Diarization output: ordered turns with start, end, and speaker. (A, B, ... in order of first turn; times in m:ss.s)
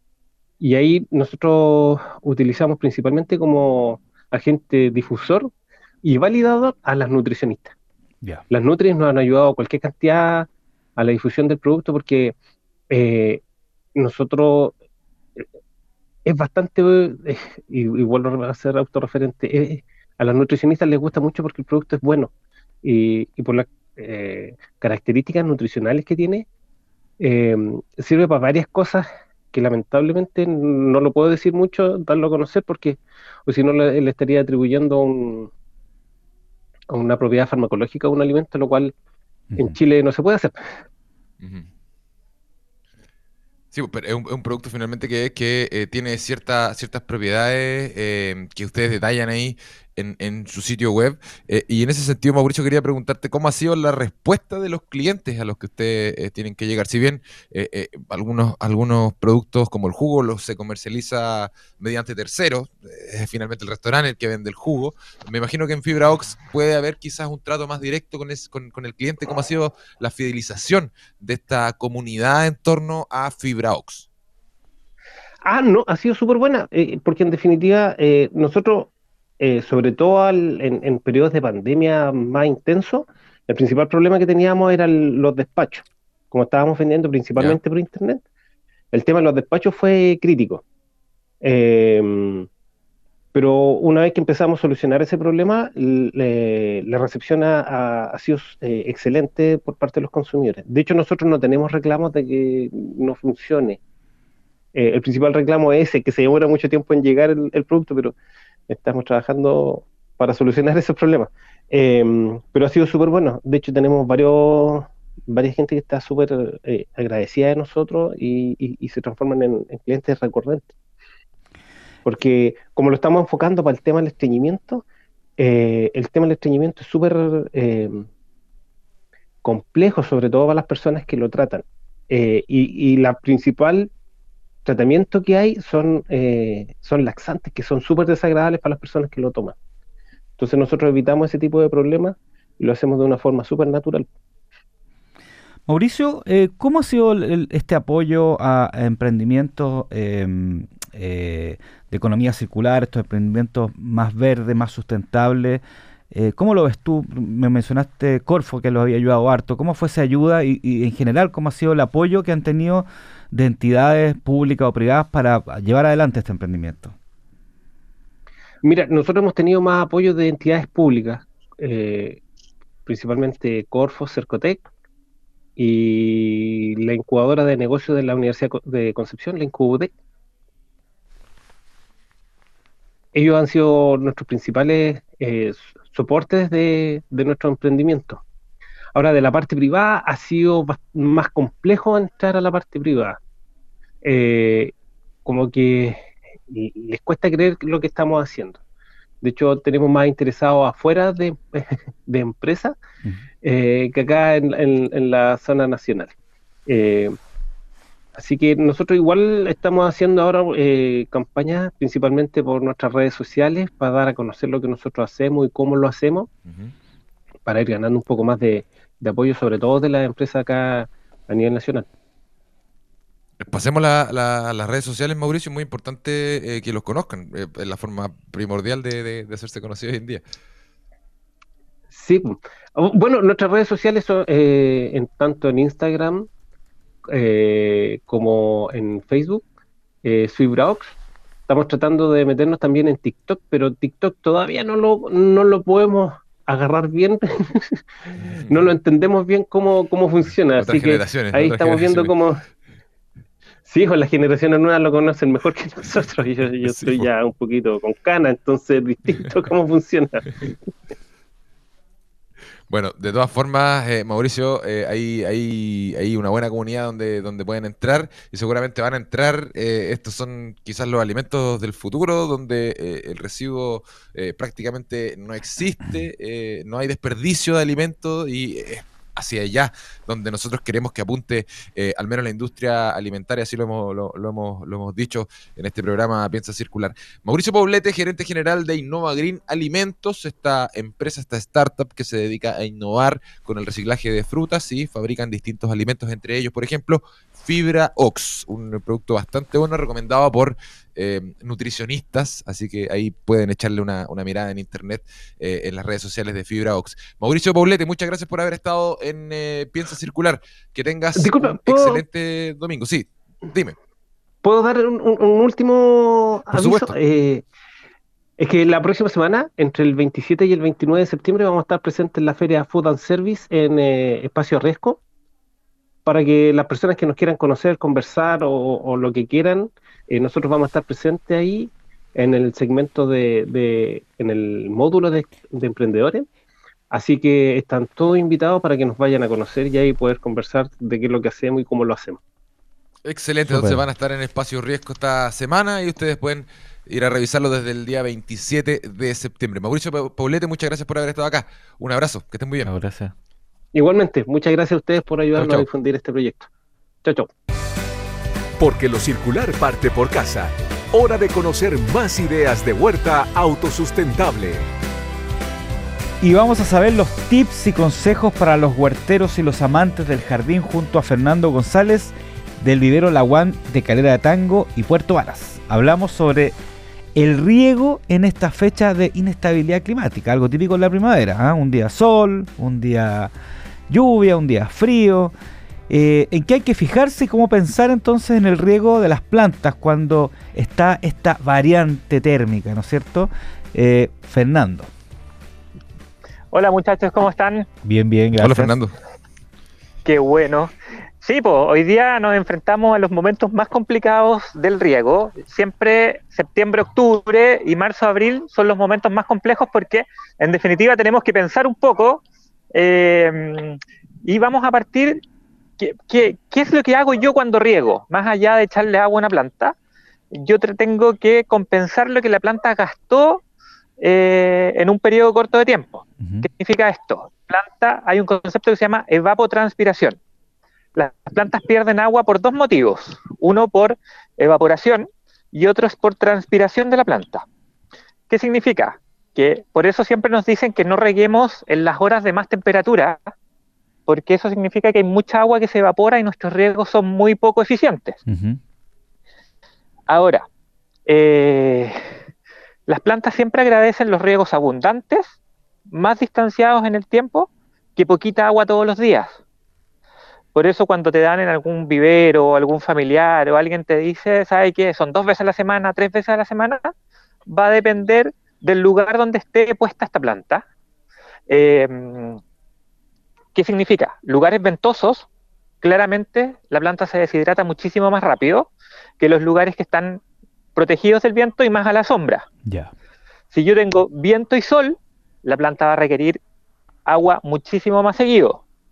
0:00.6-0:05.5 A
0:06.0-0:07.8 A
0:08.5-0:12.4 A
0:12.9-0:13.4 A
0:14.0-0:14.7 A
0:16.2-0:22.3 A
0:22.8-0:26.5 A
0:27.2-0:35.5 A
0:36.9-0:38.9 A
0:39.5-0:39.8 B
0:39.6-0:40.5 A
0:41.4-0:41.7 C
0:43.7-1:14.1 C
1:15.4-1:28.2 A
1:28.9-1:30.6 A
1:31.4-1:32.5 A
1:33.3-1:43.8 A
1:44.8-1:48.2 A
1:48.7-2:00.7 A
2:02.0-2:04.8 A
2:05.4-2:08.1 A
2:09.4-2:13.9 A
2:14.6-2:19.6 A
2:20.4-2:24.1 A
2:25.7-2:47.0 B
2:48.6-2:52.2 A
2:52.9-2:54.7 A
2:55.6-2:59.9 A
3:03.1-3:08.2 A
3:09.0-3:13.2 A
3:14.0-3:14.7 A
3:15.2-3:18.6 A
3:19.2-3:22.8 A
3:23.4-3:26.1 A
3:26.7-3:27.2 A
3:28.2-3:36.3 A
3:36.5-3:36.7 C
3:37.5-3:41.9 A
3:43.4-3:50.2 C
3:51.9-3:56.3 A
3:57.1-3:59.4 A
4:00.0-4:01.0 A
4:01.5-4:07.8 A
4:08.3-4:12.4 A
4:10.6-4:12.1 C
4:13.7-4:20.5 A
4:16.6-4:17.1 C
4:22.7-5:13.8 C
5:11.2-5:12.0 A
5:14.4-5:17.4 A
5:16.5-5:17.0 C
5:18.4-5:25.0 A
5:26.0-5:36.3 A
5:36.9-5:42.2 A
5:43.1-5:52.7 C
5:43.5-5:43.8 B
5:52.6-5:53.1 B
5:53.7-5:56.5 A
5:55.4-5:55.7 C
5:57.0-5:57.3 A
5:58.6-6:04.7 D
6:06.2-6:16.6 B
6:17.2-6:23.3 B
6:23.9-6:25.3 B
6:25.9-6:34.9 B
6:36.5-6:37.7 E
6:37.8-6:38.8 B
6:38.4-6:38.9 C
6:40.0-6:52.2 E
6:52.7-6:55.2 E
6:55.8-6:59.8 E
7:00.3-7:03.4 E
7:04.0-7:10.2 E
7:06.2-7:06.5 B
7:11.0-7:17.4 E
7:18.3-7:23.2 E
7:24.1-7:28.2 E
7:28.3-7:28.6 B
7:30.1-7:30.5 E
7:31.1-7:32.1 E
7:32.9-7:35.4 E
7:35.9-7:39.4 E
7:40.5-7:46.9 E
7:47.5-7:50.6 E
7:51.5-7:52.4 E
7:53.6-7:55.3 E
7:55.8-8:00.2 E
8:00.8-8:02.5 E
8:02.6-8:02.9 B
8:03.5-8:06.4 E
8:07.1-8:08.6 E